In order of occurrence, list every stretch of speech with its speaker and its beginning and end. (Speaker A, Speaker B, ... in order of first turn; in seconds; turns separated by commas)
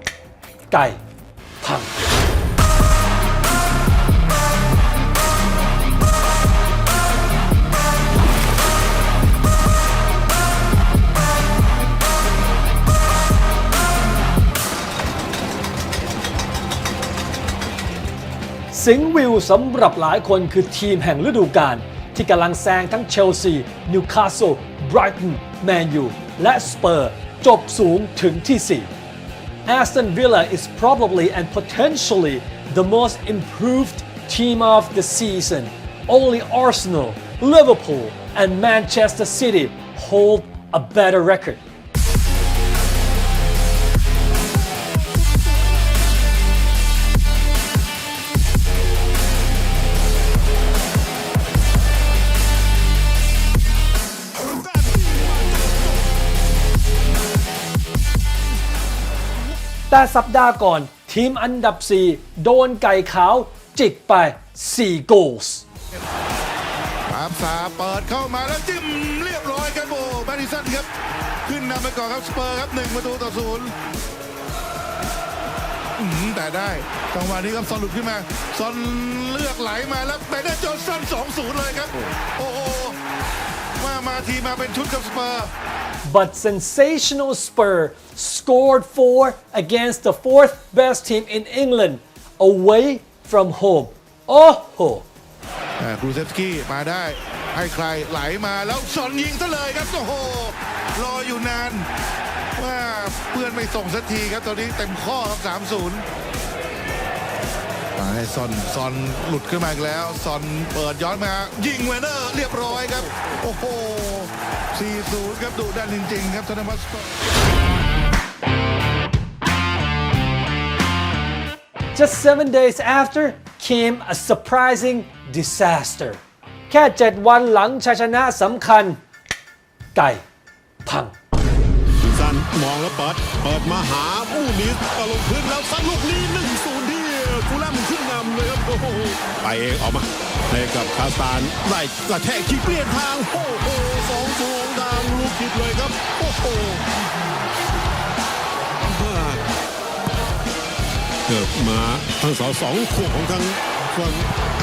Speaker A: 0.7-1.0, Speaker A: 1.6-1.9, Speaker A: 18.7-28.9, Speaker A: 29.7-41.6, Speaker B: 54.6-55.8, Speaker A: 59.9-65.7, Speaker C: 67.1-70.9, Speaker C: 71.5-73.7, Speaker C: 76.0-83.0, Speaker C: 83.8-85.5, Speaker A: 86.0-95.0, Speaker C: 95.8-101.9, Speaker C: 102.6-106.1, Speaker C: 108.0-117.2, Speaker A: 122.0-129.0, Speaker A: 129.9-130.2, Speaker A: 130.8-131.1, Speaker B: 132.0-146.8, Speaker B: 148.9-149.4, Speaker B: 151.3-154.3